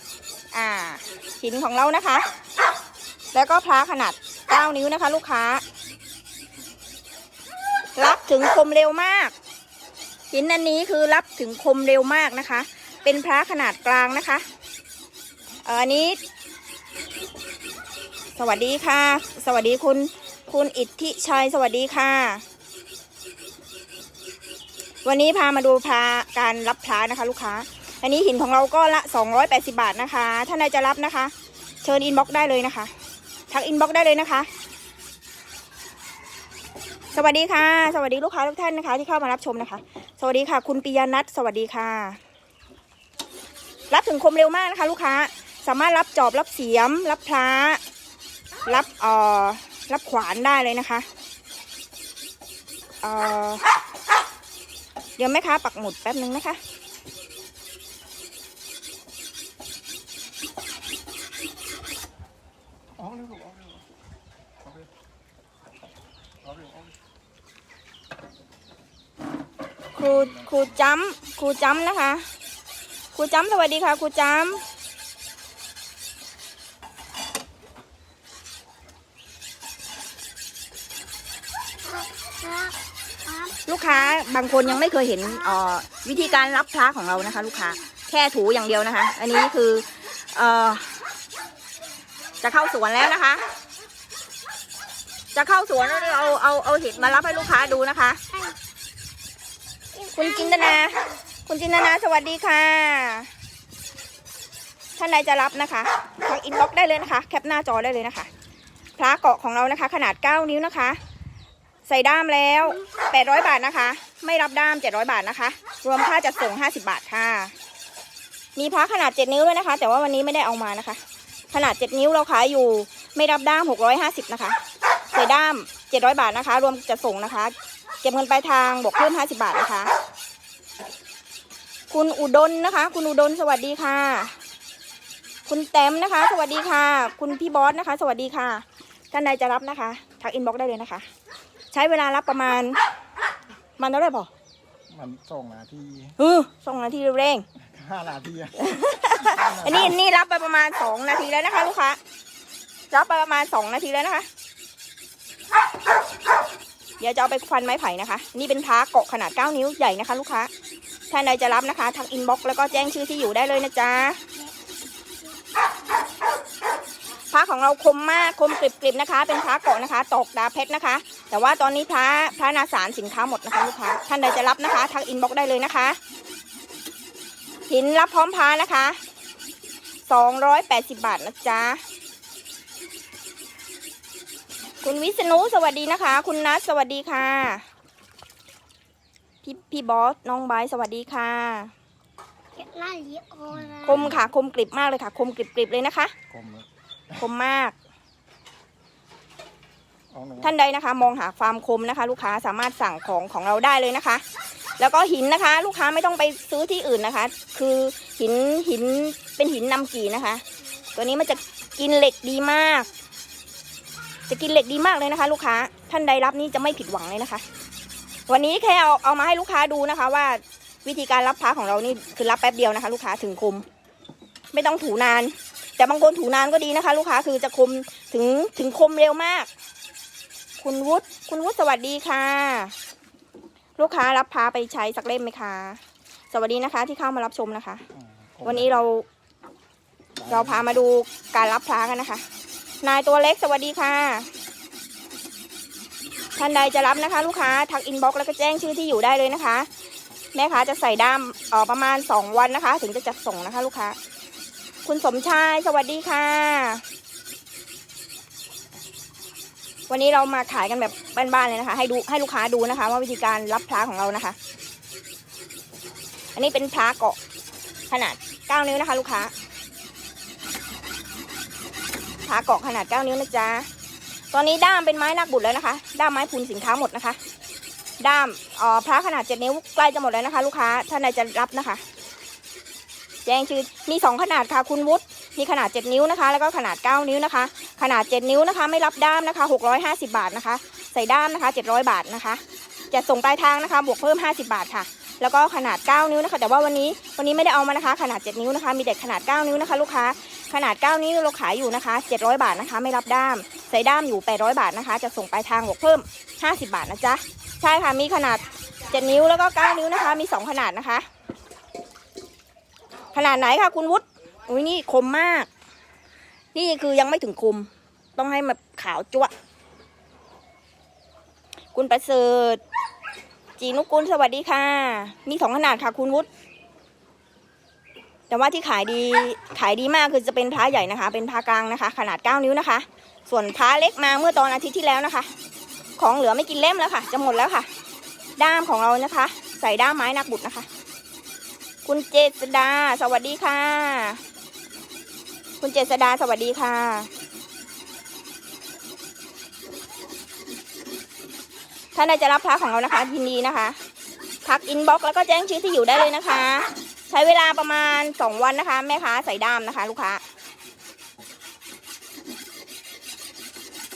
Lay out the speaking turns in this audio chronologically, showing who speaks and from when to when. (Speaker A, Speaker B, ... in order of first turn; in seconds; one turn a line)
Speaker A: 0.5-2.3
Speaker A: 3.3-5.6
Speaker A: 8.0-9.3
Speaker A: 10.3-14.4
Speaker A: 15.7-16.2
Speaker A: 18.4-22.4
Speaker A: 25.1-31.3
Speaker A: 31.8-32.9
Speaker A: 33.5-34.5
Speaker A: 37.1-42.2
Speaker A: 43.9-47.8
Speaker A: 48.7-51.1
Speaker A: 53.0-53.7
Speaker A: 55.2-56.6
Speaker B: 63.0-63.8
Speaker B: 66.5-66.8
Speaker A: 69.9-72.3
Speaker A: 73.1-74.6
Speaker C: 81.9-83.5
Speaker A: 83.7-91.0
Speaker A: 92.4-93.5
Speaker A: 95.3-98.2
Speaker C: 100.0-100.5
Speaker A: 100.1-103.3
Speaker A: 105.0-108.3
Speaker A: 109.0-111.0
Speaker A: 111.9-117.5
Speaker A: 118.6-121.0
Speaker A: 121.5-124.6
Speaker A: 125.1-129.9
Speaker A: 131.9-134.3
Speaker A: 135.5-141.1
Speaker A: 141.7-142.8
Speaker A: 143.8-144.3
Speaker B: 144.9-146.2
Speaker A: 146.2-147.4
Speaker B: 147.6-149.9
Speaker A: 148.6-152.0
Speaker A: 152.9-154.3
Speaker A: 157.0-160.5
Speaker A: 161.1-164.2
Speaker A: 167.3-176.0
Speaker A: 177.7-179.0
Speaker A: 180.1-181.8
Speaker A: 184.8-187.7
Speaker A: 189.4-191.7
Speaker C: 192.6-194.0
Speaker B: 193.5-194.2
Speaker A: 193.8-196.1
Speaker B: 196.3-196.7
Speaker A: 197.2-197.8
Speaker B: 200.1-200.5
Speaker A: 200.4-204.2
Speaker A: 204.8-210.4
Speaker A: 210.9-212.9
Speaker A: 214.3-217.4
Speaker A: 218.3-223.7
Speaker A: 224.5-229.5
Speaker A: 230.6-232.8
Speaker A: 233.8-235.8
Speaker A: 236.3-237.8
Speaker B: 238.2-238.7
Speaker A: 238.4-239.1
Speaker B: 240.2-240.7
Speaker A: 240.3-242.2
Speaker A: 242.8-244.3
Speaker A: 246.4-249.7
Speaker A: 250.3-254.0
Speaker A: 254.8-256.8
Speaker A: 259.9-264.4
Speaker A: 266.4-267.2
Speaker A: 267.9-269.3
Speaker A: 272.3-273.7
Speaker A: 274.3-277.2
Speaker A: 278.0-281.8
Speaker A: 283.2-311.1
Speaker A: 313.1-315.5
Speaker A: 316.5-319.3
Speaker A: 321.7-322.6
Speaker A: 323.6-326.3
Speaker A: 328.3-335.3
Speaker A: 336.0-337.7
Speaker A: 338.4-340.7
Speaker A: 341.9-344.2
Speaker A: 345.6-347.1
Speaker A: 351.9-353.8
Speaker A: 354.4-360.2